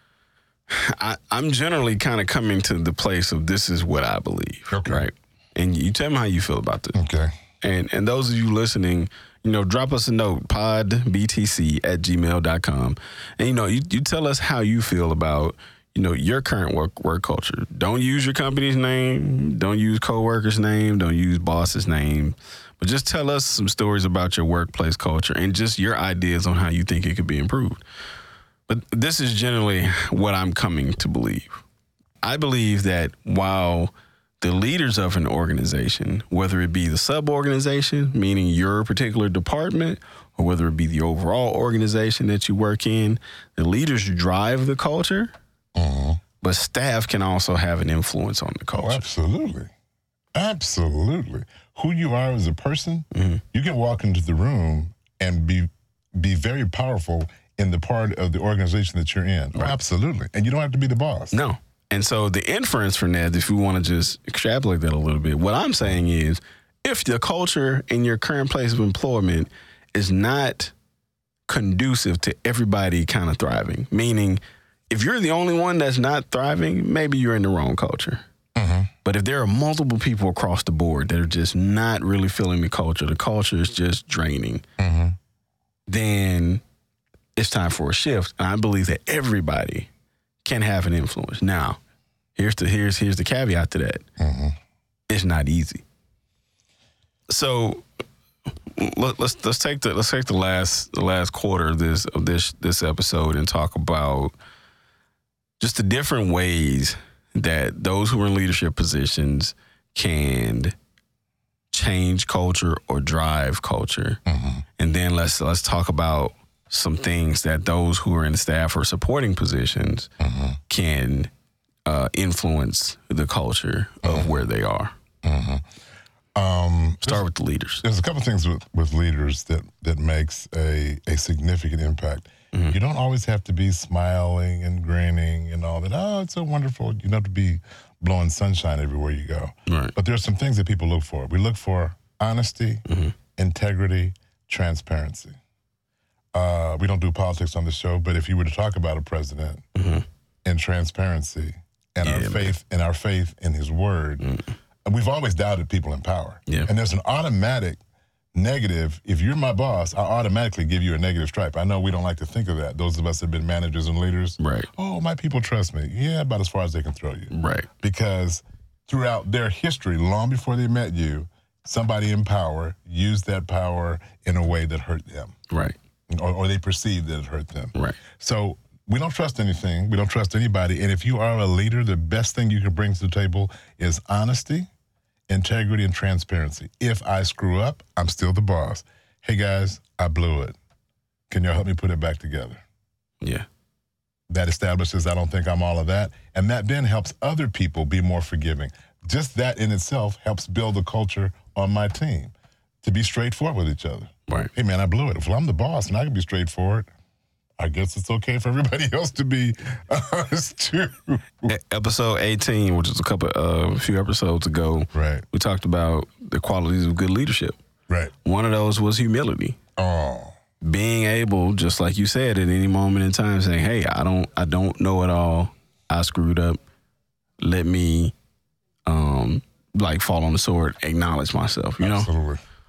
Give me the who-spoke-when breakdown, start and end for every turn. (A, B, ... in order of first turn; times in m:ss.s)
0:00.7-0:07.0 A
0:04.7-0:05.0 B
0:06.9-0:07.3 B
0:07.6-0:27.8 A
0:28.7-0:31.5 A
0:32.2-0:45.3 A
0:45.7-0:46.2 B
0:46.4-0:49.1 A
0:48.7-0:49.7 B
0:50.3-1:01.4 B
0:53.1-0:53.4 A
1:01.3-1:10.7 A
1:11.5-1:18.2 A
1:18.6-1:18.9 B
1:19.0-1:24.6 A
1:24.8-1:25.2 B
1:25.9-1:26.6 A
1:27.4-1:29.9 A
1:30.4-1:31.8 A
1:32.4-1:34.0 A
1:34.2-1:34.6 B
1:35.1-1:35.8 A
1:37.3-1:37.8 A
1:38.6-1:44.3 A
1:45.6-1:50.7 A
1:51.7-1:54.2 A
1:54.2-1:54.6 B
1:54.8-2:00.1 A
2:00.2-2:00.6 B
2:00.7-2:01.3 A
2:01.8-2:04.9 A
2:04.0-2:04.4 B
2:05.2-2:05.6 B
2:06.4-2:07.3 B
2:07.0-2:07.8 A
2:07.8-2:22.8 B
2:19.7-2:19.9 A
2:22.9-2:23.1 A
2:23.4-2:25.4 B
2:26.3-2:29.6 B
2:29.7-2:30.0 A
2:30.4-2:34.2 B
2:32.0-2:32.5 A
2:34.2-2:34.5 A
2:34.8-2:37.8 B
2:38.3-2:55.3 B
2:44.4-2:44.7 A
2:47.3-2:47.7 A
2:55.5-2:55.8 A
2:56.1-3:04.7 B
2:57.7-2:58.0 A
3:05.3-3:10.5 B
3:11.3-3:12.6 B
3:14.3-3:26.9 B
3:27.6-3:31.5 B
3:31.5-3:37.6 A
3:34.9-3:35.2 B
3:37.9-3:38.1 B
3:38.2-3:39.6 A
3:39.8-3:40.3 B
3:40.6-3:46.6 A
3:47.4-3:48.1 A
3:48.8-3:52.1 A
3:51.8-3:52.4 B